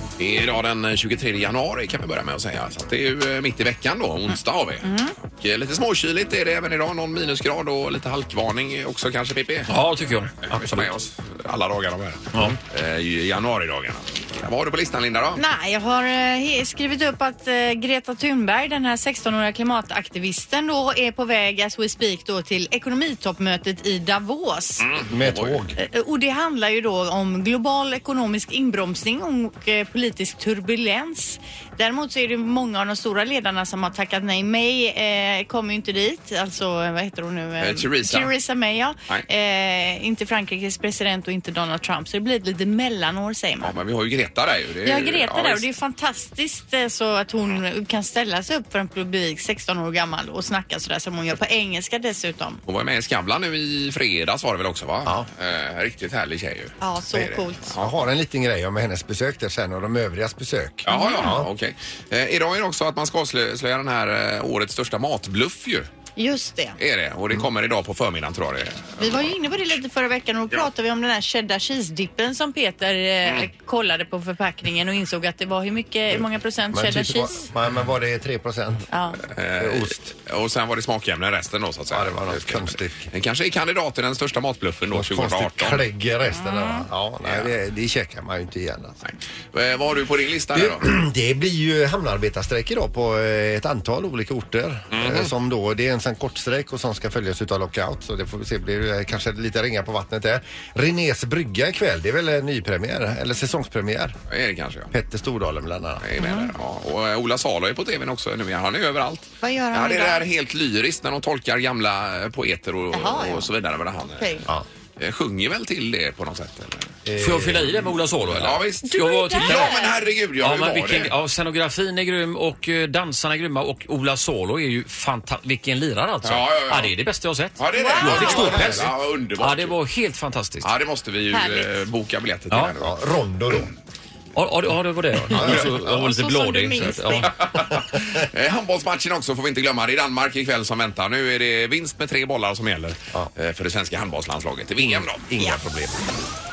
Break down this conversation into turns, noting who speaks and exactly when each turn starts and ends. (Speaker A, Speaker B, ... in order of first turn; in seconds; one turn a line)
Speaker A: 0.2-9.7
Speaker B: 4.8-5.2
Speaker C: 9.7-11.0
Speaker A: 10.4-15.4
Speaker C: 12.3-12.6
Speaker B: 15.3-24.9
Speaker A: 24.8-25.6
Speaker D: 25.1-25.8
Speaker B: 25.8-43.7
Speaker A: 37.6-38.3
Speaker A: 43.6-45.7
Speaker B: 44.9-52.6
Speaker A: 52.7-58.1
Speaker B: 56.8-57.8
Speaker D: 57.7-61.5
Speaker A: 60.9-65.9
Speaker B: 60.9-61.4
Speaker B: 66.2-66.8
Speaker A: 66.8-69.3
Speaker B: 69.0-77.5
Speaker D: 76.7-78.9
Speaker B: 78.9-79.2
Speaker A: 79.3-85.8
Speaker D: 79.6-80.1
Speaker D: 81.9-83.0
Speaker D: 84.9-89.0
Speaker B: 86.3-86.9
Speaker A: 87.2-87.5
Speaker A: 89.0-90.8
Speaker D: 90.5-104.2
Speaker A: 94.9-95.3
Speaker A: 104.3-104.9
Speaker D: 104.9-106.0
Speaker A: 106.0-114.5
Speaker B: 106.2-106.5
Speaker B: 109.4-110.2
Speaker B: 112.9-113.5
Speaker B: 114.0-114.5
Speaker A: 115.0-116.9
Speaker D: 117.1-117.9
Speaker C: 117.2-119.7
Speaker A: 118.3-121.1
Speaker B: 118.9-120.0
Speaker C: 120.4-130.7
Speaker A: 126.2-127.0
Speaker A: 127.6-129.8
Speaker B: 127.7-128.7
Speaker A: 130.6-132.9
Speaker B: 131.3-131.7
Speaker C: 132.5-132.8
Speaker D: 132.8-133.7
Speaker C: 134.3-137.4
Speaker D: 135.3-136.1
Speaker B: 136.0-137.3
Speaker A: 137.2-146.0
Speaker D: 144.8-145.6